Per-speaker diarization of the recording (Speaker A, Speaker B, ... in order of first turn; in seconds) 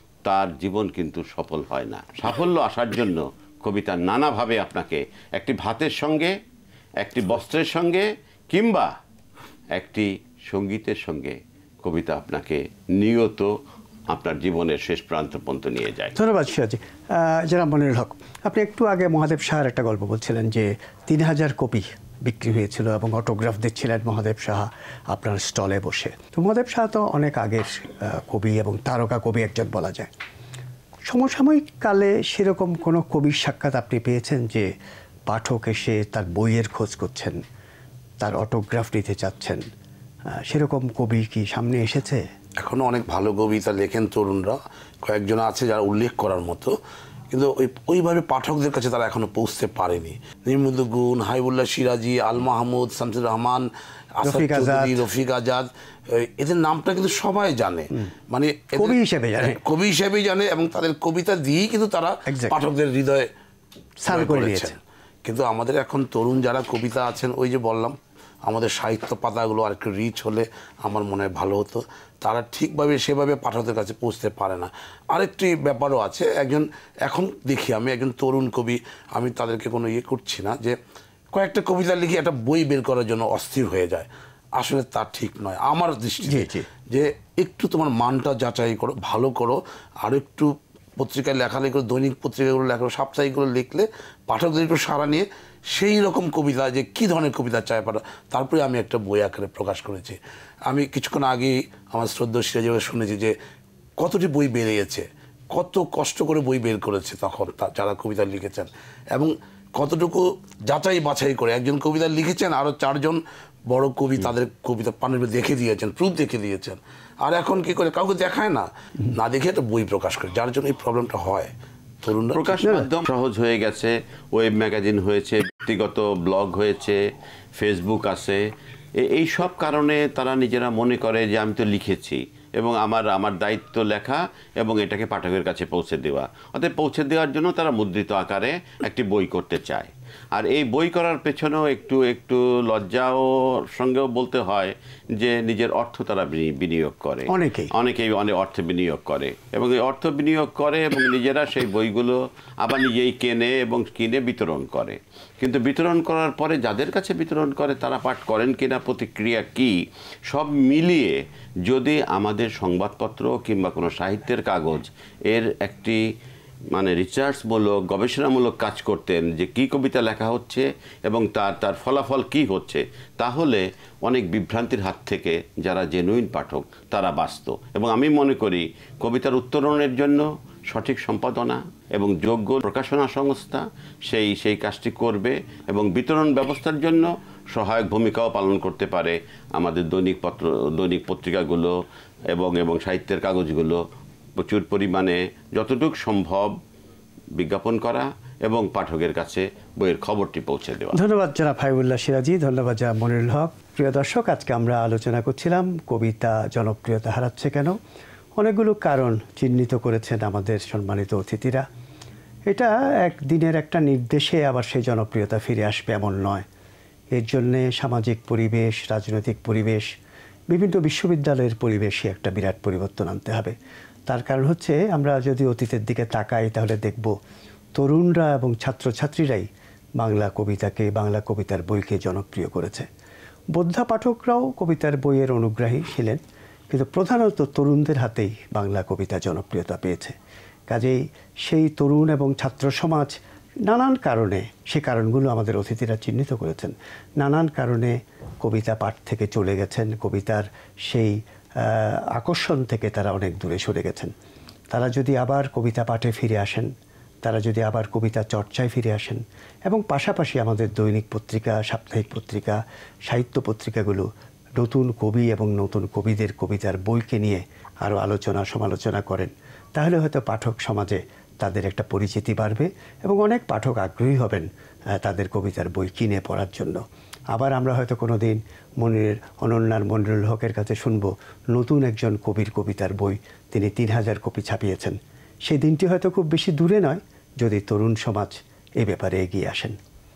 Speaker A: 0.2-6.3, 7.0-8.9, 9.7-13.5, 14.1-16.1, 122.3-127.0, 127.6-128.4, 129.0-159.8, 160.3-166.0, 166.7-191.7, 192.3-193.8, 194.4-196.5, 197.4-201.0
Speaker B: 16.1-30.1, 31.1-34.7, 35.3-37.4, 38.2-39.6, 40.5-42.2, 54.2-55.0, 58.7-59.6, 62.3-62.5, 64.0-64.8, 86.2-86.7, 147.3-147.7, 200.9-207.8, 208.4-211.6, 212.5-216.4, 217.1-219.9, 220.5-223.5, 224.1-227.1, 227.8-229.5, 230.0-232.9, 233.5-240.1, 240.7-254.1, 254.7-256.7, 257.2-274.5, 275.0-276.8, 277.3-289.8
Speaker C: 42.6-46.7, 47.3-53.7, 54.2-63.3, 64.1-80.8, 81.3-103.3, 104.0-121.5, 122.0-122.8